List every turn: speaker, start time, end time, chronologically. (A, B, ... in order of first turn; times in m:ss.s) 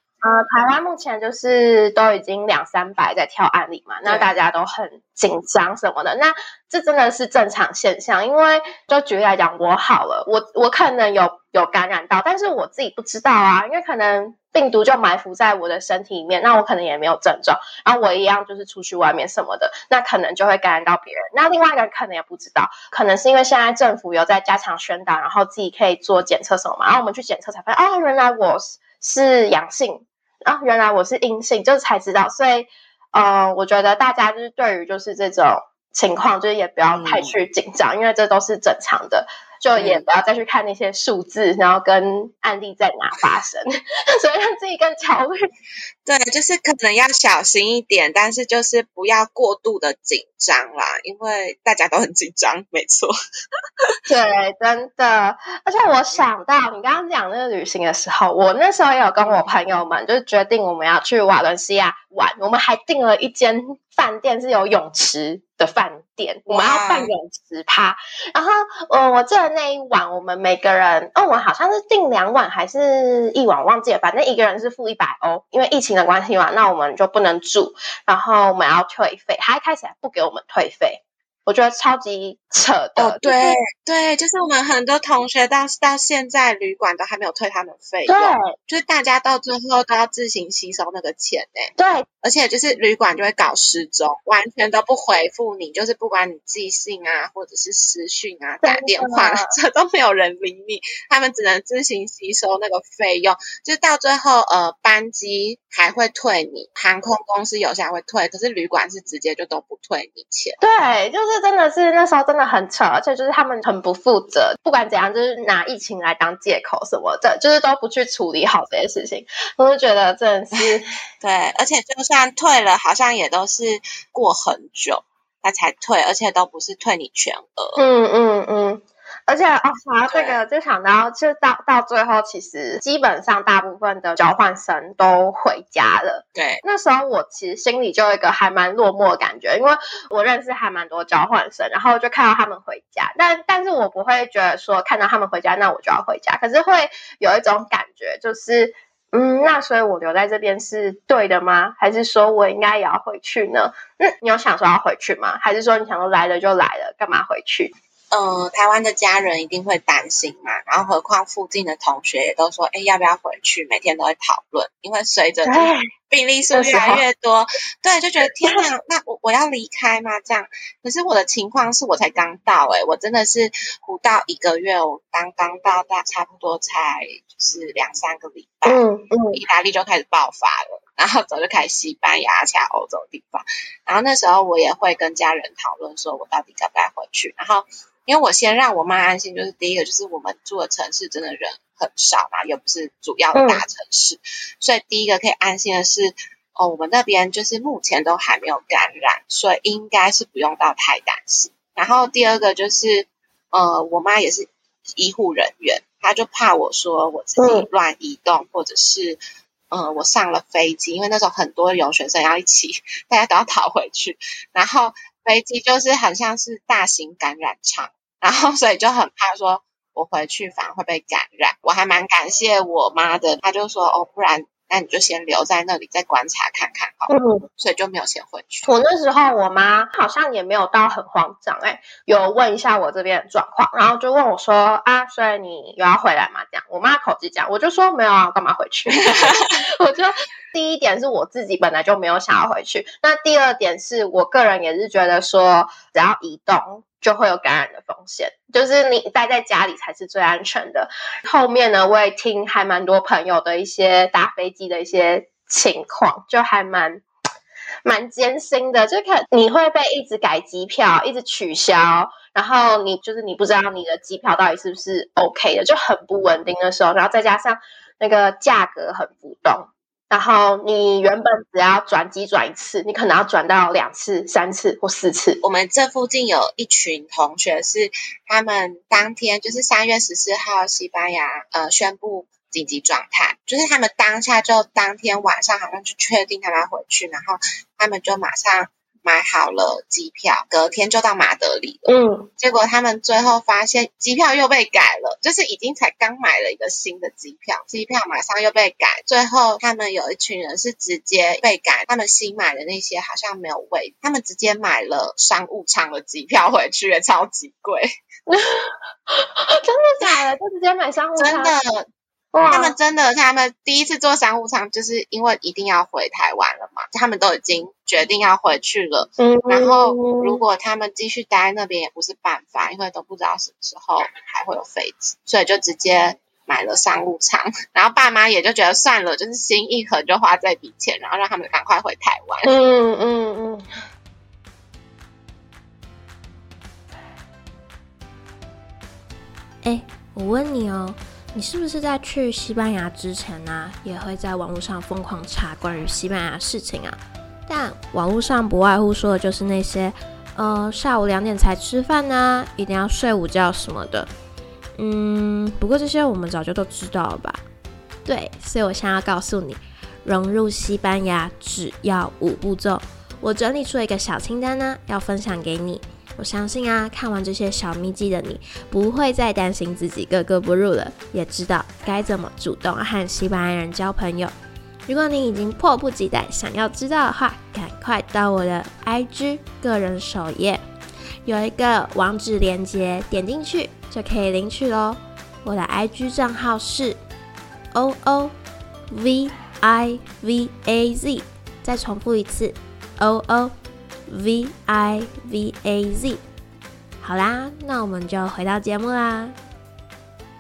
0:00.2-0:45.4 A
0:04.0-0:04.3 B
0:36.9-0:37.4 B
0:39.8-0:40.0 B
0:46.0-0:53.1 B
0:54.1-1:23.6 A
1:06.5-1:07.1 B
1:23.0-1:50.6 B
1:28.1-1:28.5 A
1:31.8-1:32.1 A
1:38.6-1:39.5 A
1:50.6-2:00.9 A
2:01.2-2:07.8 B
2:07.8-2:37.7 A
2:10.1-2:10.4 B
2:16.4-2:16.6 B
2:38.1-3:29.2 B
2:45.4-2:45.8 A
2:46.5-2:47.0 A
2:58.7-2:59.4 A
3:13.4-3:13.6 A
3:27.4-3:27.7 A
3:29.7-3:48.7 B
3:47.1-3:47.5 A
3:48.7-4:17.0 A
4:17.8-4:35.4 A
4:35.4-5:07.9 B
4:51.9-4:52.3 A
5:08.3-5:11.5 A
5:11.2-5:11.9 B
5:12.3-5:12.8 A
5:12.5-5:32.5 B
5:19.2-5:20.4 A
5:32.4-5:33.6 A
5:39.6-5:54.1 C
5:54.8-5:57.4 C
5:58.1-6:14.3 C
6:14.9-6:20.6 C
6:21.2-6:27.0 C
6:27.7-6:28.3 C
6:28.9-6:33.5 C
6:34.1-6:36.2 C
6:37.0-6:39.4 C